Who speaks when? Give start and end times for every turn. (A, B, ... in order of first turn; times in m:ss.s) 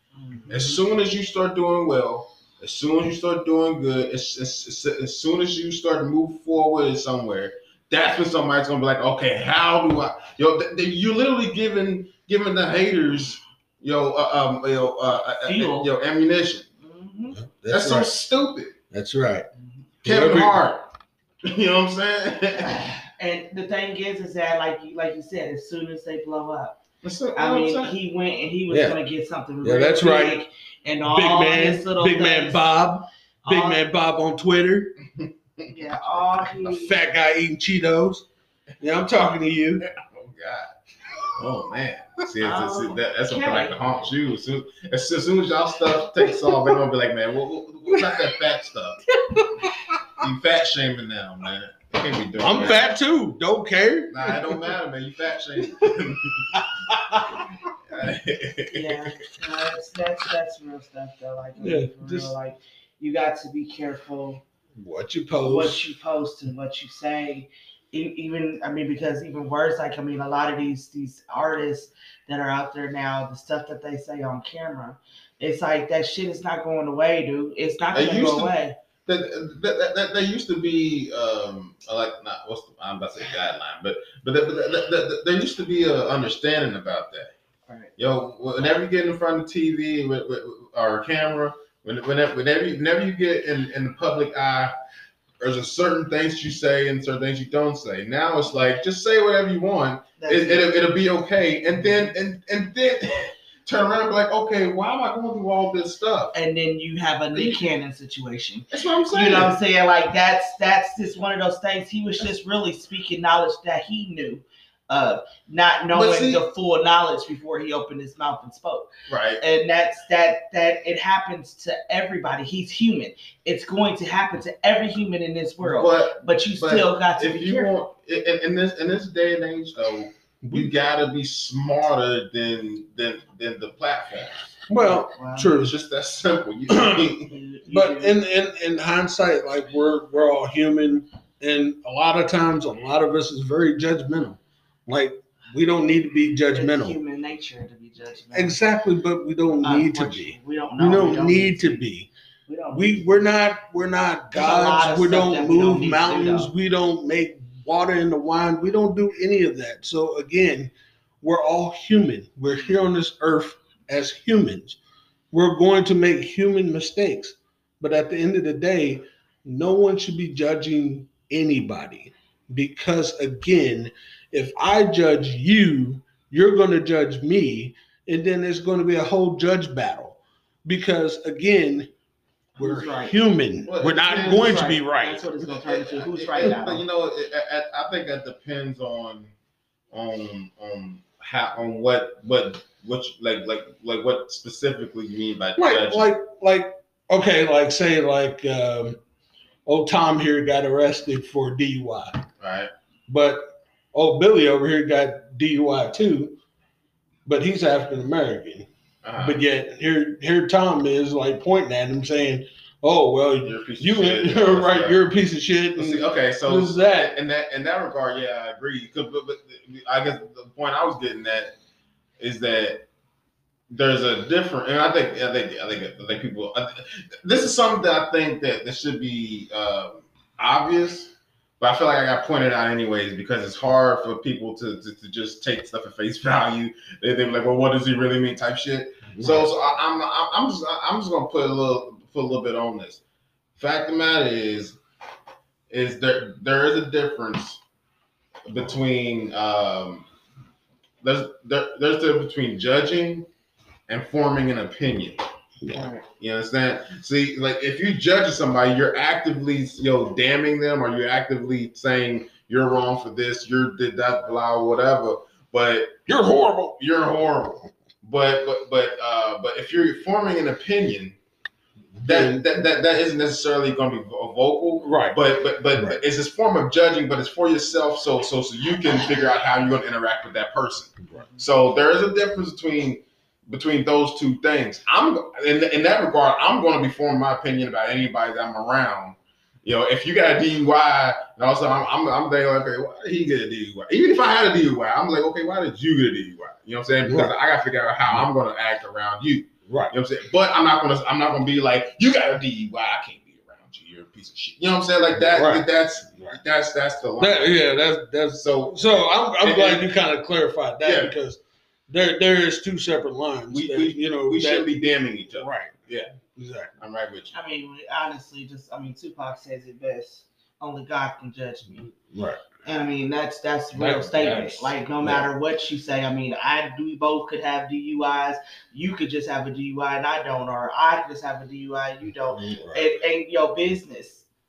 0:00.2-0:00.8 A
0:00.5-0:16.6 B
0:15.4-0:15.9 A
0:16.8-0:17.4 A
0:17.3-0:18.1 C
0:17.7-0:18.7 B
0:18.9-0:19.5 C
0:20.0-0:20.6 C
0:20.0-0:20.9 B
0:21.4-0:22.8 B
0:22.6-0:26.8 A
0:27.0-0:28.0 B
0:27.4-0:32.7 A
0:28.7-0:29.0 C
0:29.6-0:30.4 C
0:31.0-0:34.9 C
0:33.4-0:33.8 A
0:35.2-0:35.7 B
0:35.7-0:37.0 A
0:36.4-0:38.2 C
0:38.8-0:39.8 C
0:40.0-0:40.7 B
0:41.3-0:49.0 B
0:42.4-0:43.8 A
0:46.3-0:46.7 C
0:49.3-0:50.2 C
0:50.2-0:52.9 B
0:52.4-0:54.7 C
0:54.1-0:56.6 B
0:56.5-0:57.4 C
0:57.9-0:59.0 B
0:58.7-1:04.4 A
1:01.6-1:02.4 C
1:04.8-1:05.9 C
1:05.4-1:18.8 A
1:17.9-1:18.5 B
1:19.0-1:27.3 B
1:28.0-1:34.7 B
1:35.4-1:46.3 B
1:40.2-1:40.7 A
1:46.3-1:58.9 A
1:47.3-1:47.6 B
1:48.7-1:49.5 B
1:55.9-1:56.4 B
1:59.1-1:59.4 B
1:59.4-2:07.7 A
2:05.6-2:14.5 B
2:10.4-2:10.7 C
2:14.7-2:15.7 C
2:14.8-2:15.5 A
2:15.5-2:17.4 B
2:16.7-2:17.2 C
2:17.2-2:18.2 A
2:17.7-2:27.0 C
2:26.5-2:28.6 A
2:28.3-2:32.1 C
2:29.6-2:31.8 A
2:32.5-2:33.2 A
2:32.7-2:44.8 C
2:34.3-2:36.5 A
2:45.3-3:01.9 C
3:02.6-3:03.1 A
3:02.6-3:05.3 C
3:03.6-3:04.7 B
3:04.2-3:06.8 A
3:05.6-3:09.3 B
3:09.9-3:16.0 B
3:15.6-3:19.0 C
3:19.6-3:22.2 C
3:22.4-3:22.7 B
3:23.1-3:26.4 C
3:27.2-3:37.1 C
3:29.0-3:29.4 B
3:33.4-3:35.0 B
3:35.8-3:41.5 B
3:42.2-3:42.8 B
3:43.7-4:03.0 B
3:59.1-3:59.5 C
4:03.6-4:04.8 B
4:05.7-4:07.6 B
4:08.5-4:10.1 B
4:11.0-4:13.3 B
4:13.9-4:15.2 B
4:15.6-4:15.9 C
4:15.7-4:16.0 A
4:16.2-4:26.1 B
4:26.1-4:26.8 C
4:26.7-4:31.2 B
4:32.0-4:32.4 C
4:32.0-5:07.6 B
4:34.8-4:35.2 C
4:57.1-4:57.3 C
4:59.7-4:59.9 C
5:05.2-5:06.4 C
5:07.2-5:14.6 C
5:08.3-5:09.9 B
5:10.8-5:11.1 B
5:13.5-5:16.1 B
5:15.4-5:15.8 C
5:16.3-5:16.7 C
5:16.8-5:17.3 B
5:17.3-5:21.9 A
5:22.1-5:22.4 C
5:22.6-5:34.2 A
5:23.7-5:25.3 C
5:32.3-5:32.9 C